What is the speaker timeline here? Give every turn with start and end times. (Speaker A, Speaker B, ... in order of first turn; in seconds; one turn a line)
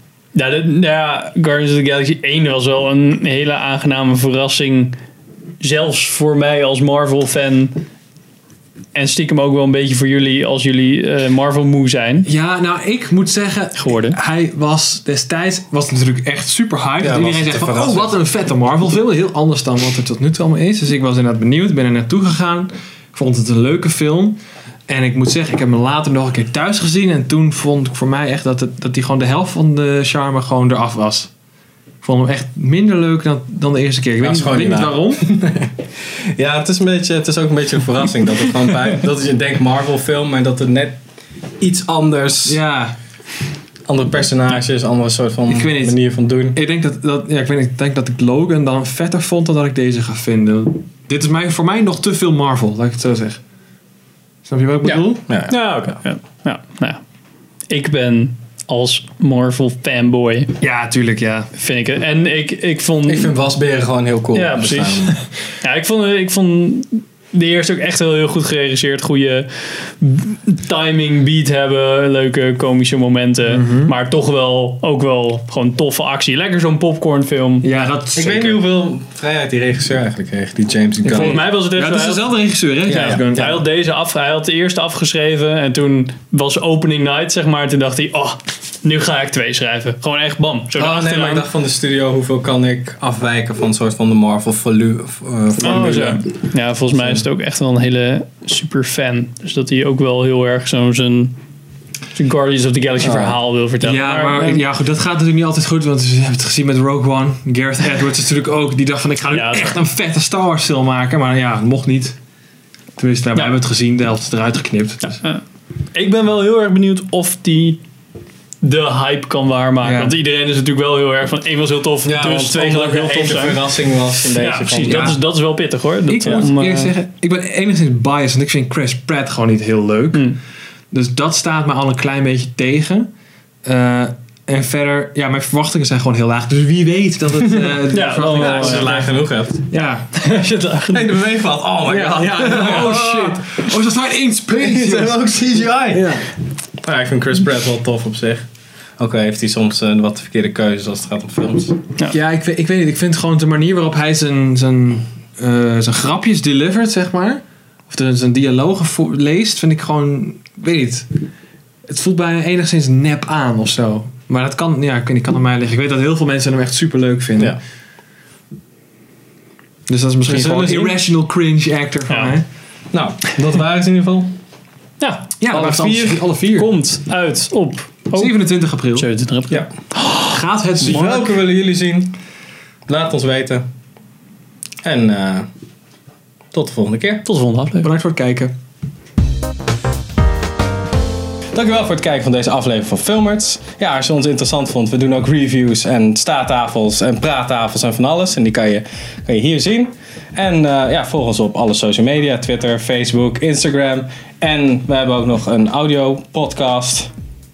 Speaker A: 0.3-5.0
Speaker A: 5.6-7.8
Speaker A: 8.9-12.3
Speaker B: 12.2-31.3
Speaker A: 13.8-14.2
Speaker C: 17.0-18.1
Speaker B: 32.0-35.2
Speaker C: 34.2-35.7
Speaker C: 36.4-41.0
Speaker C: 41.6-42.6
Speaker B: 42.5-43.0
Speaker C: 43.9-46.6
Speaker B: 45.5-46.0
Speaker B: 46.5-53.4
Speaker B: 54.5-55.2
Speaker C: 54.8-56.0
Speaker A: 55.5-57.0
Speaker A: 57.7-60.6
Speaker B: 60.6-61.5
Speaker A: 61.6-63.3
Speaker C: 63.1-65.2
Speaker A: 64.3-77.7
Speaker B: 73.5-74.0
Speaker B: 77.6-78.6
Speaker C: 78.2-81.4
Speaker B: 81.0-83.6
Speaker A: 81.1-82.2
Speaker C: 82.9-83.4
Speaker A: 82.9-91.5
Speaker C: 90.8-96.3
Speaker A: 95.6-101.3
Speaker C: 96.9-97.2
Speaker A: 102.2-104.6
Speaker C: 103.0-103.4
Speaker B: 103.8-112.2
Speaker A: 109.3-109.8
Speaker B: 113.0-115.0
Speaker A: 115.0-115.4
Speaker A: 115.9-117.8
Speaker A: 118.6-126.9
Speaker B: 119.8-120.2
Speaker C: 122.0-125.2
Speaker B: 126.1-130.2
Speaker B: 130.9-133.1
Speaker B: 133.7-139.1
Speaker A: 137.9-139.0
Speaker C: 138.4-139.6
Speaker B: 139.7-140.2
Speaker A: 140.2-141.0
Speaker C: 140.9-143.7
Speaker B: 141.8-145.2
Speaker C: 144.6-146.2
Speaker B: 145.9-146.2
Speaker C: 146.8-148.4
Speaker C: 149.0-151.8
Speaker B: 152.1-161.1
Speaker B: 161.9-167.6
Speaker B: 169.9-172.5
Speaker C: 170.3-171.0
Speaker A: 172.1-172.4
Speaker C: 172.9-174.3
Speaker A: 175.0-175.3
Speaker B: 175.4-176.7
Speaker C: 175.5-176.2
Speaker A: 176.5-178.3
Speaker B: 178.1-179.1
Speaker A: 178.9-180.4
Speaker B: 180.2-181.3
Speaker C: 180.8-182.2
Speaker C: 182.9-183.7
Speaker C: 184.8-185.5
Speaker C: 186.5-187.2
Speaker A: 187.2-187.9
Speaker B: 187.8-188.5
Speaker C: 191.5-207.1